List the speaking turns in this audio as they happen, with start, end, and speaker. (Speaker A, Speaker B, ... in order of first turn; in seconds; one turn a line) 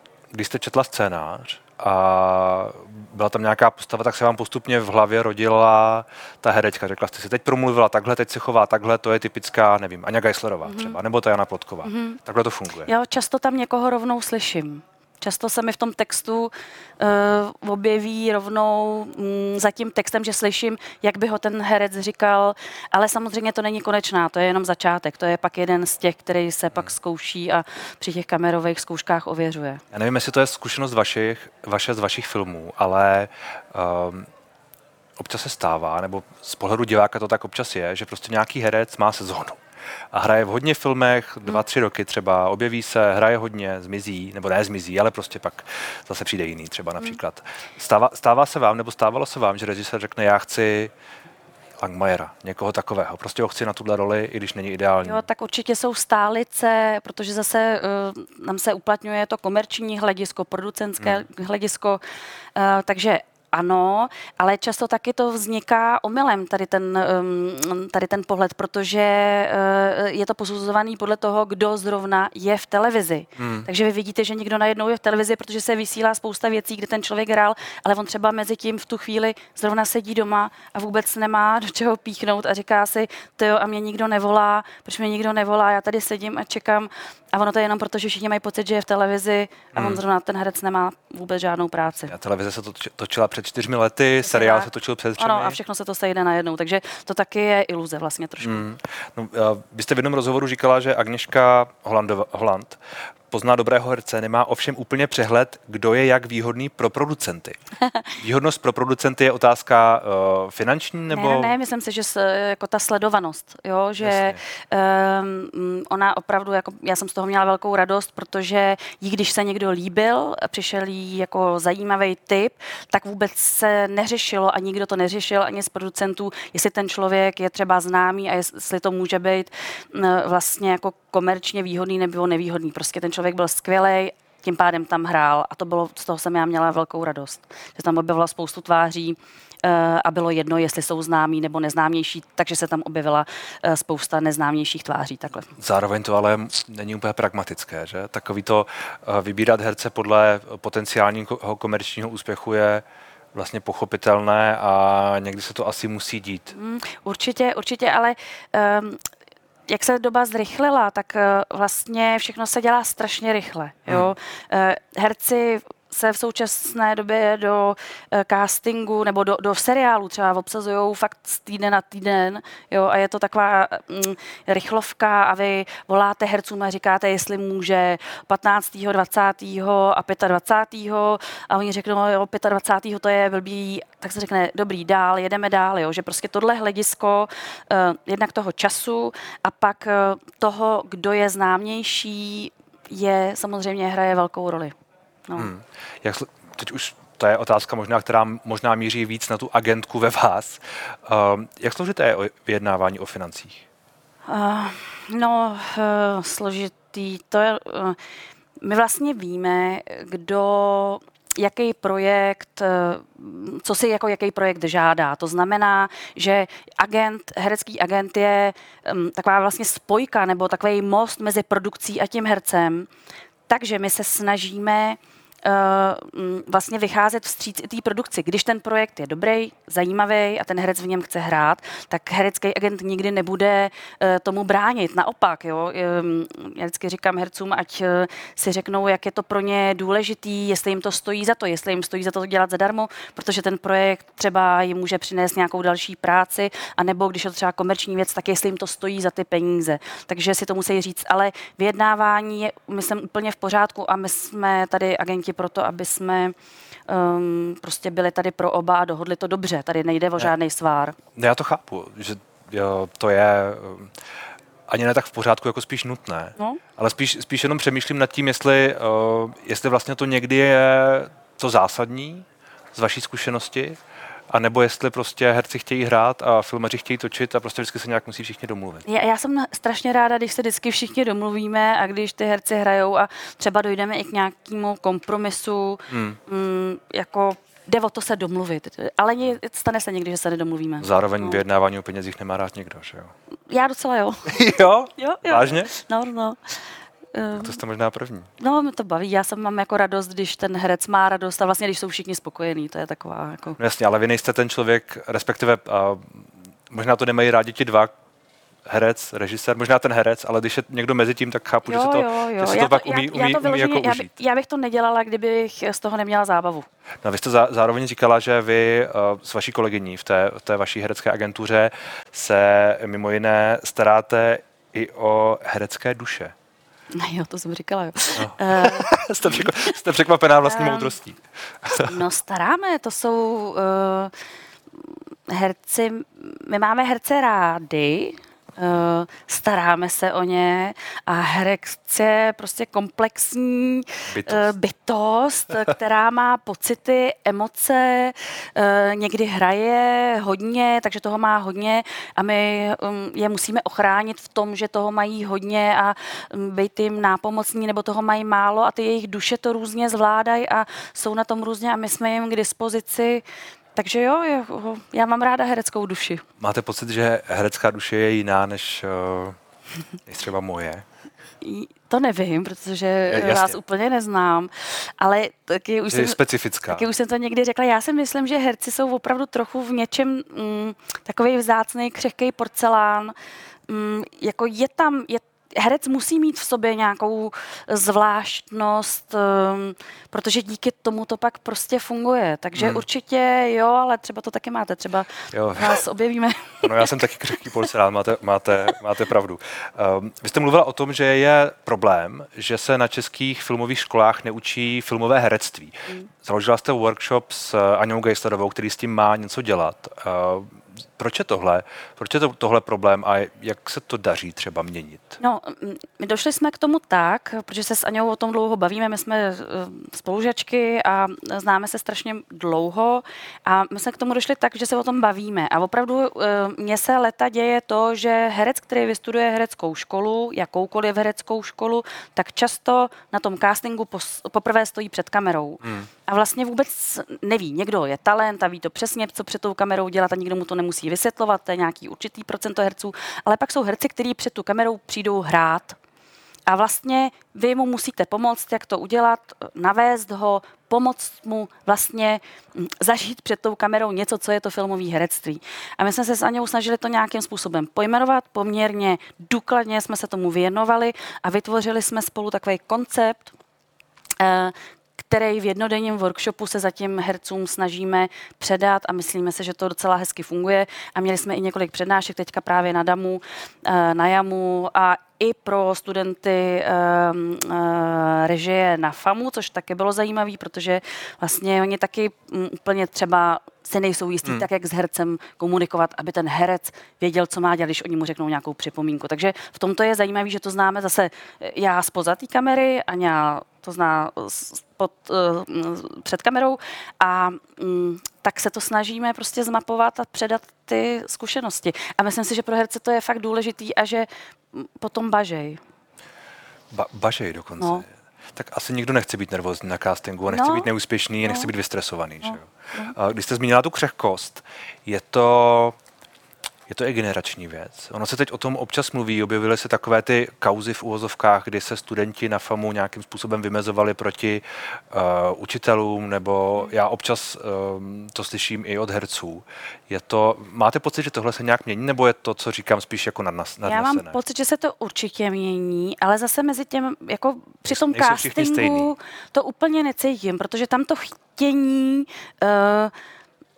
Speaker A: 0.3-12.9
Speaker B: 10.6-11.0
Speaker B: 11.8-12.2
Speaker B: 12.8-29.8
Speaker A: 29.9-34.3
Speaker A: 35.2-39.6
Speaker A: 40.1-50.9
Speaker A: 51.8-55.2
Speaker B: 55.0-62.0
Speaker B: 62.5-92.1
Speaker A: 73.4-73.7
Speaker A: 89.7-90.0
Speaker A: 92.1-95.6
Speaker B: 94.2-98.6
Speaker A: 98.4-102.8
Speaker A: 103.3-107.6
Speaker A: 108.2-111.5
Speaker B: 111.1-145.5
Speaker A: 114.0-114.4
Speaker A: 145.6-156.5
Speaker B: 156.5-159.0
Speaker B: 159.7-194.8
Speaker A: 195.4-203.6
Speaker B: 204.3-208.0
Speaker B: 208.6-222.9
Speaker B: 223.5-256.4
Speaker B: 256.9-261.0
Speaker A: 261.1-263.9
Speaker A: 264.7-273.8
Speaker A: 274.3-278.8
Speaker B: 278.9-291.4
Speaker A: 285.9-286.2
Speaker A: 290.8-293.1
Speaker B: 293.5-296.4
Speaker A: 294.3-295.7
Speaker B: 297.1-297.6
Speaker A: 297.4-298.3
Speaker B: 298.4-303.6
Speaker A: 303.6-307.9
Speaker A: 308.6-314.1
Speaker B: 311.6-316.6
Speaker A: 317.0-326.3
Speaker B: 326.9-329.7
Speaker A: 328.2-332.0
Speaker B: 330.4-330.9
Speaker B: 331.7-334.1
Speaker B: 335.3-363.2
Speaker A: 344.1-344.5
Speaker B: 363.8-366.2
Speaker A: 366.4-369.4
Speaker A: 370.1-370.8
Speaker B: 371.4-383.1
Speaker A: 373.1-373.6
Speaker A: 375.9-376.9
Speaker B: 383.7-396.7
Speaker A: 392.6-392.8
Speaker A: 395.3-395.8
Speaker A: 396.6-415.2
Speaker B: 415.2-445.8
Speaker B: 446.5-463.3
Speaker B: 464.2-505.6
Speaker A: 506.7-515.8
Speaker B: 507.6-507.8
Speaker B: 510.3-510.7
Speaker B: 512.2-512.9
Speaker A: 516.7-534.2
Speaker B: 533.7-542.9
Speaker A: 537.7-538.9